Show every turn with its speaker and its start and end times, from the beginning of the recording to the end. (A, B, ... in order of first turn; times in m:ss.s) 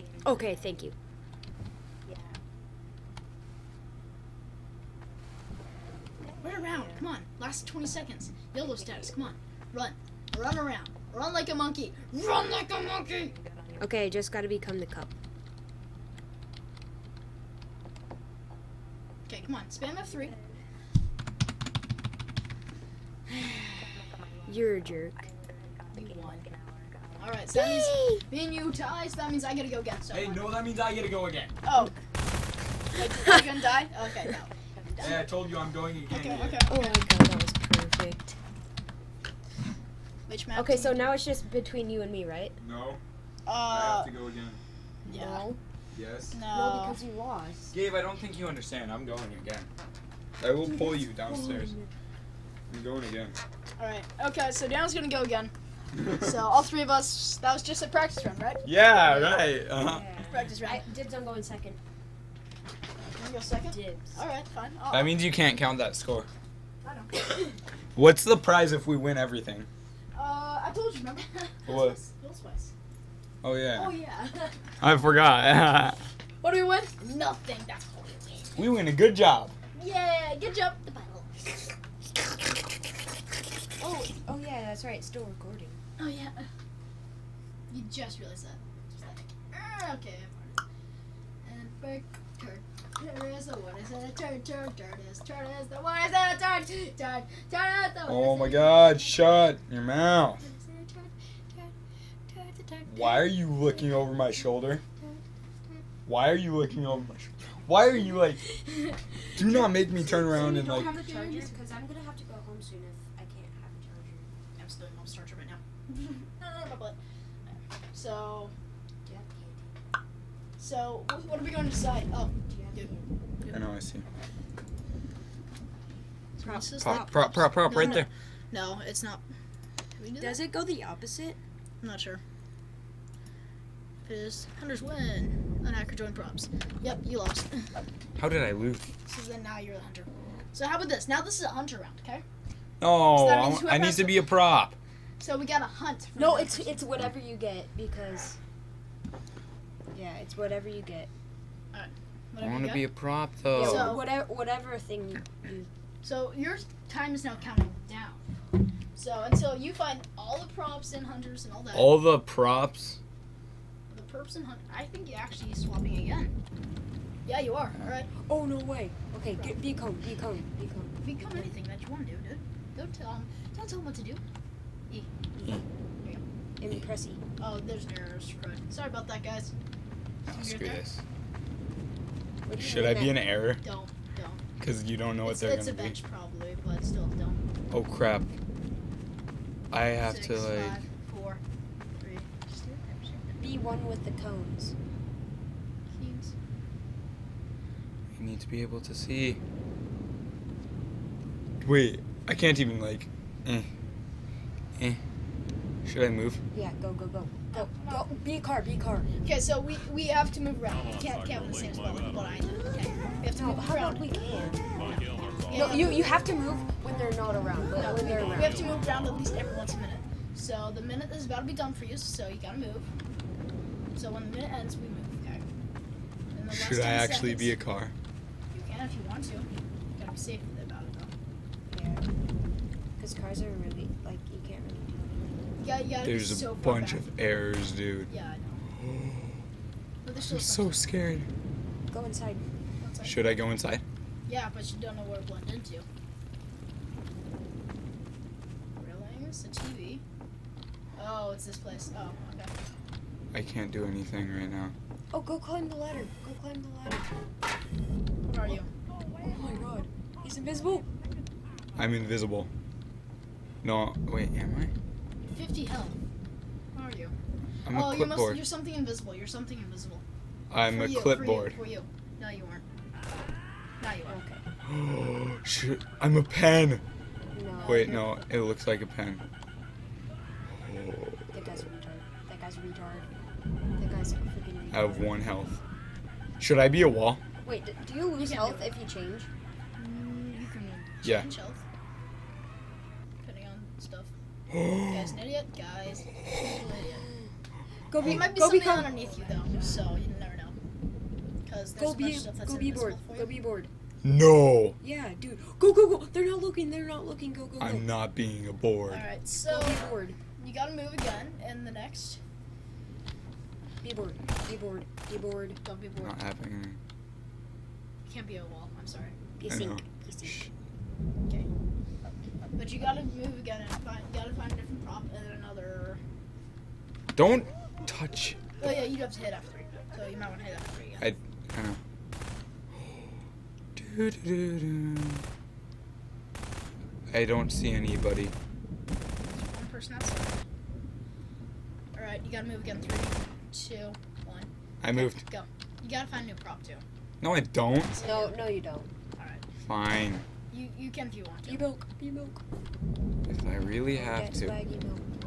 0:00.2-0:01.0 A
0:06.4-0:13.4 B
0:13.8-0:15.1 A
0:19.3-0:20.4 B
0:23.3-0:23.9 B
0:24.5-0:25.2 A
0:25.9-0:26.5 B
0:27.2-0:30.5 B
0:27.6-0:28.2 A
0:30.1-0:31.5 C
0:31.6-0:32.0 B
0:32.9-0:35.3 B
0:35.0-0:36.7 C
0:36.1-0:37.0 B
0:36.7-0:38.4 A
0:40.3-0:41.1 B
0:40.5-0:42.6 A
0:42.6-0:43.0 C
0:43.5-0:44.1 B
0:43.7-0:44.6 C
0:45.1-0:45.5 B
0:45.1-0:45.6 A
0:45.9-0:46.4 C
0:46.3-0:47.0 B
0:46.5-0:47.7 A
0:47.7-0:49.7 C
0:50.4-0:51.7 C
0:50.6-0:51.9 A
0:52.7-0:53.4 C
0:53.8-0:55.5 B
0:56.0-0:59.1 B
0:58.6-1:00.1 C
0:59.8-1:01.8 A
1:00.3-1:00.8 B
1:03.2-1:05.1 B
1:03.7-1:04.2 A
1:04.9-1:06.3 C
1:06.8-1:07.6 B
1:08.0-1:09.7 C
1:10.1-1:12.7 B
1:11.7-1:12.0 C
1:13.4-1:14.0 C
1:13.7-1:14.7 B
1:14.8-1:16.0 C
1:16.4-1:18.6 B
1:18.6-1:19.5 C
1:19.7-1:21.7 B
1:23.8-1:25.8 A
1:26.0-1:26.5 B
1:27.7-1:30.6 B
1:31.4-1:39.4 B
1:38.1-1:40.4 C
1:40.2-1:41.7 B
1:42.3-1:43.4 B
1:42.9-1:44.8 C
1:46.1-1:48.4 C
1:49.3-1:51.6 B
1:49.4-1:50.9 C
1:50.3-1:54.3 A
1:54.6-1:57.0 B
1:57.9-1:58.5 B
1:59.0-1:59.7 A
2:00.6-2:02.9 B
2:02.5-2:03.1 A
2:03.5-2:04.1 C
2:06.4-2:09.2 B
2:06.4-2:08.1 A
2:06.8-2:08.1 C
2:10.0-2:10.4 B
2:10.2-2:11.4 A
2:11.8-2:12.2 B
2:14.0-2:17.8 B
2:18.2-2:18.9 C
2:19.0-2:22.2 B
2:22.8-2:24.8 C
2:23.1-2:24.3 B
2:25.2-2:26.8 B
2:26.2-2:28.4 A
2:29.9-2:31.1 A
2:31.7-2:32.9 B
2:32.4-2:34.0 C
2:33.5-2:34.1 B
2:33.5-2:35.7 A
2:36.0-2:38.2 B
2:39.0-2:42.0 B
2:41.7-2:43.0 C
2:43.9-2:46.3 B
2:47.2-2:48.1 B
2:48.2-2:51.5 A
2:51.0-2:54.2 B
2:56.6-2:57.2 A
2:57.4-2:59.5 B
3:00.3-3:00.8 B
3:00.3-3:01.0 C
3:02.4-3:03.2 A
3:02.5-3:03.6 C
3:03.6-3:04.4 B
3:04.6-3:06.0 C
3:05.2-3:07.4 B
3:07.7-3:08.3 C
3:09.7-3:10.8 C
3:09.9-3:11.4 B
3:12.0-3:13.4 B
3:13.4-3:14.7 A
3:15.9-3:16.3 B
3:18.2-3:19.4 C
3:21.6-3:23.7 C
3:25.8-3:26.4 C
3:26.5-3:29.1 A
3:27.5-3:28.1 B
3:29.2-3:34.2 B
3:33.3-3:38.7 A
3:35.5-3:36.0 B
3:37.8-3:42.9 B
3:44.0-3:45.4 B
3:46.3-3:47.6 B
3:46.5-3:47.9 C
3:48.5-3:51.1 B
3:51.7-3:52.1 A
3:53.0-3:55.7 A
3:55.6-3:57.0 B
3:56.0-3:58.1 C
3:58.1-3:58.6 B
3:58.7-3:59.4 C
4:00.0-4:00.8 B
4:00.3-4:01.3 C
4:01.9-4:02.4 A
4:02.8-4:03.4 B
4:03.0-4:03.8 C
4:04.3-4:05.9 B
4:08.8-4:10.0 B
4:11.0-4:12.5 B
4:13.3-4:14.7 C
4:15.1-4:17.1 A
4:18.3-4:18.7 B
4:19.2-4:20.9 A
4:21.8-4:22.5 C
4:23.6-4:24.7 C
4:25.3-4:26.0 B
4:26.7-4:27.2 B
4:27.7-4:28.4 C
4:27.7-4:30.0 B
4:30.5-4:31.6 C
4:30.7-4:32.6 B
4:33.8-4:34.2 B
4:34.1-4:34.5 A
4:34.6-4:36.8 C
4:37.3-4:38.2 A
4:37.5-4:38.1 B
4:37.6-4:39.2 C
4:40.5-4:41.6 C
4:41.3-4:43.1 A
4:43.8-4:45.1 A
4:44.7-4:45.6 C
4:46.4-4:47.2 C
4:47.4-4:49.3 A
4:48.2-4:48.7 B
4:49.8-4:51.6 B
4:51.0-4:51.3 C
4:53.2-4:54.1 B
4:54.5-4:55.1 C
4:54.7-4:57.0 B
4:57.0-4:57.3 A
4:57.9-4:59.6 A
4:58.0-5:00.6 B
4:58.0-4:58.3 C
5:01.4-5:03.3 B
5:01.8-5:03.7 A
5:04.0-5:04.8 C
5:04.8-5:07.9 A
5:07.6-5:09.0 C
5:08.9-5:12.2 B
5:09.5-5:10.2 A
5:13.8-5:15.6 A
5:15.6-5:16.2 B
5:16.0-5:16.8 C
5:18.1-5:19.2 B
5:19.4-5:20.4 A
5:19.5-5:20.5 C
5:22.6-5:26.0 B
5:27.2-5:28.4 C
5:28.6-5:31.1 B
5:31.0-5:31.8 C
5:33.8-5:35.2 C
5:37.1-5:38.4 C
5:39.3-5:40.4 B
5:41.9-5:46.8 B
5:44.8-5:45.2 C
5:47.2-5:48.0 C
5:48.0-5:48.4 B
5:48.0-5:48.9 A
5:49.2-5:49.4 B
5:49.6-5:50.3 C
5:50.5-5:51.7 B
5:51.4-5:52.4 A
5:53.3-5:54.6 C
5:53.9-5:55.0 A